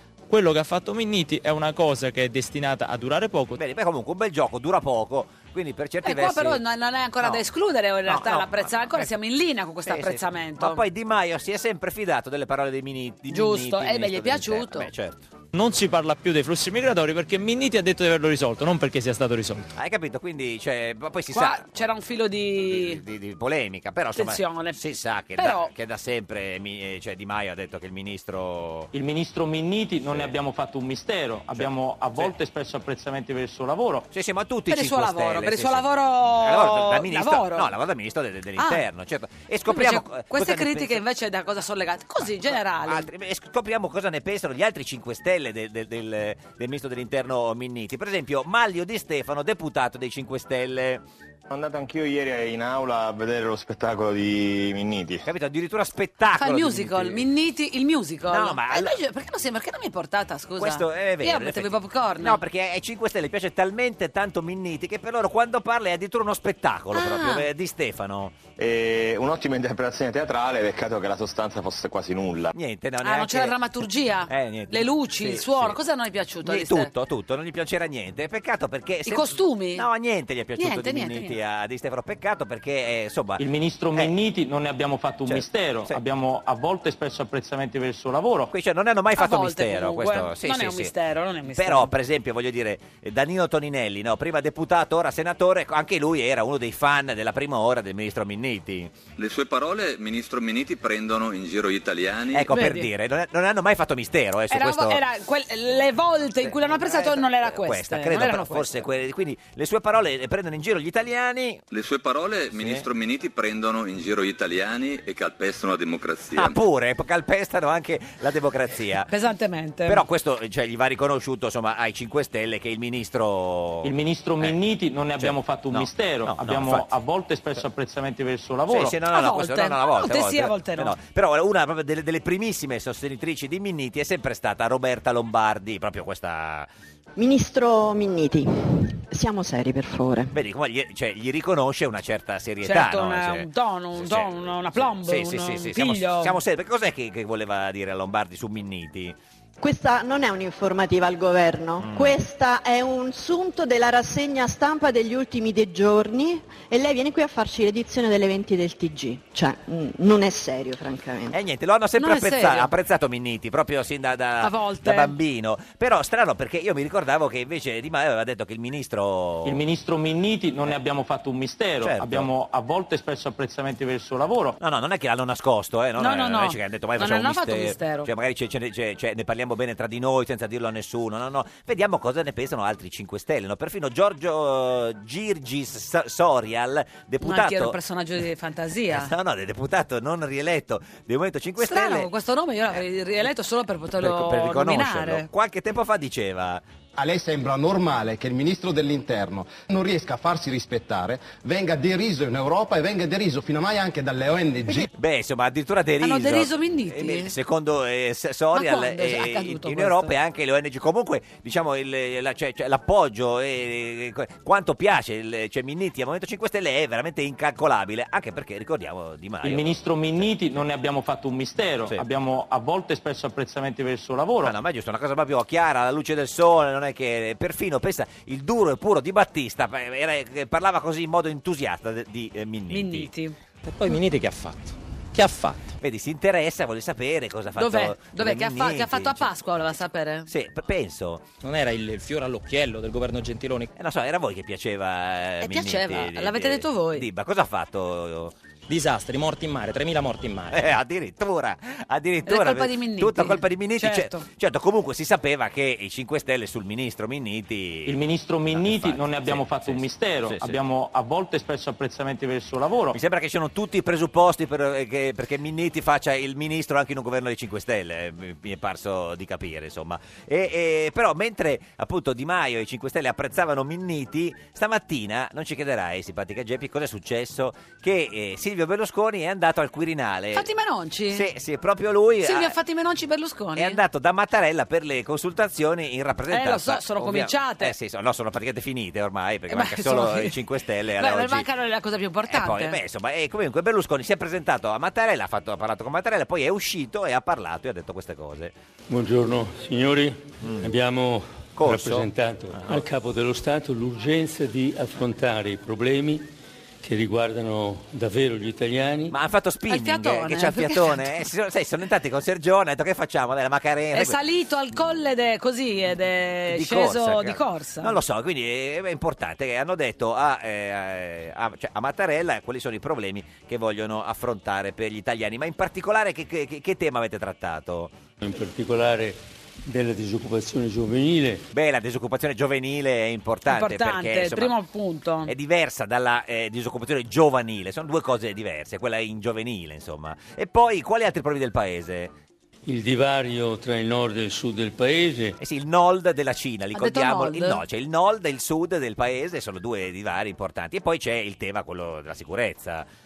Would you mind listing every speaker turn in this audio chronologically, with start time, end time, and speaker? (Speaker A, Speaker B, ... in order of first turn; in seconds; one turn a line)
Speaker A: 0.3-3.6
Speaker B: 3.5-6.6
Speaker C: 6.0-10.8
Speaker B: 8.1-9.1
Speaker B: 9.9-15.3
Speaker C: 13.3-14.9
Speaker A: 15.5-19.6
Speaker B: 19.8-21.7
Speaker C: 21.3-23.0
Speaker B: 22.6-28.9
Speaker C: 24.1-24.8
Speaker C: 25.4-25.7
Speaker D: 28.9-34.1
Speaker B: 31.5-32.3
Speaker B: 34.1-41.0
Speaker C: 34.7-37.7
Speaker C: 38.6-38.8
Speaker C: 39.7-43.1
Speaker B: 42.2-51.0
Speaker E: 51.5-55.2
Speaker B: 55.2-57.2
Speaker C: 56.4-62.4
Speaker B: 58.3-59.0
Speaker B: 60.6-68.3
Speaker C: 66.9-67.5
Speaker E: 68.6-72.5
Speaker B: 72.5-73.5
Speaker C: 73.0-76.9
Speaker B: 74.3-75.8
Speaker B: 76.4-83.4
Speaker C: 79.0-79.8
Speaker C: 80.5-81.4
Speaker D: 83.4-88.5
Speaker B: 85.3-86.0
Speaker B: 88.5-90.9
Speaker C: 89.2-91.9
Speaker B: 91.5-99.0
Speaker F: 99.2-102.5
Speaker B: 102.3-105.0
Speaker C: 102.5-102.9
Speaker C: 104.5-108.8
Speaker B: 106.4-111.6
Speaker F: 111.7-116.6
Speaker B: 112.5-112.8
Speaker B: 116.3-119.1
Speaker C: 119.0-120.0
Speaker B: 119.9-124.5
Speaker D: 123.8-128.9
Speaker B: 125.2-126.8
Speaker B: 128.7-136.7
Speaker C: 129.1-130.9
Speaker G: 137.2-140.3
Speaker B: 140.3-149.1
Speaker C: 142.6-146.4
Speaker G: 149.6-161.4
Speaker B: 151.8-152.2
Speaker B: 161.3-169.6
Speaker C: 162.0-162.7
Speaker C: 164.4-165.1
Speaker D: 169.4-174.6
Speaker B: 171.8-172.3
Speaker B: 174.6-187.7
Speaker C: 176.0-178.1
Speaker C: 187.2-189.1
Speaker B: 188.9-192.1
Speaker C: 191.6-195.3
Speaker B: 194.0-196.6
Speaker H: 196.9-204.9
Speaker B: 204.9-220.3
Speaker C: 206.0-207.3
Speaker C: 208.5-210.1
Speaker D: 219.4-224.5
Speaker B: 224.4-233.1
Speaker C: 232.7-233.3
Speaker A: 233.7-235.6
Speaker B: 235.8-239.3
Speaker C: 237.6-240.3
Speaker B: 240.3-241.2
Speaker A: 241.4-243.7
Speaker B: 243.7-248.3
Speaker C: 245.4-247.1
Speaker A: 248.7-250.6
Speaker B: 250.5-258.0
Speaker C: 252.2-254.2
Speaker D: 257.9-263.0
Speaker B: 258.5-260.6
Speaker B: 262.9-280.4
Speaker C: 280.3-281.2
Speaker B: 281.1-282.5
Speaker C: 282.2-283.8
Speaker B: 283.6-291.5
Speaker C: 286.3-287.7
Speaker C: 289.5-290.4
Speaker C: 290.9-292.8
Speaker B: 292.3-298.5
Speaker I: 298.9-306.3
Speaker B: 300.4-300.7
Speaker B: 301.6-302.8
Speaker I: 306.8-309.1
Speaker B: 309.1-314.2
Speaker C: 309.7-311.2
Speaker C: 313.9-318.0
Speaker B: 316.5-327.9
Speaker I: 328.2-331.5
Speaker B: 331.5-334.5
Speaker C: 333.5-335.3
Speaker B: 335.2-342.1
Speaker I: 342.6-345.4
Speaker B: 345.4-352.9
Speaker C: 346.7-347.6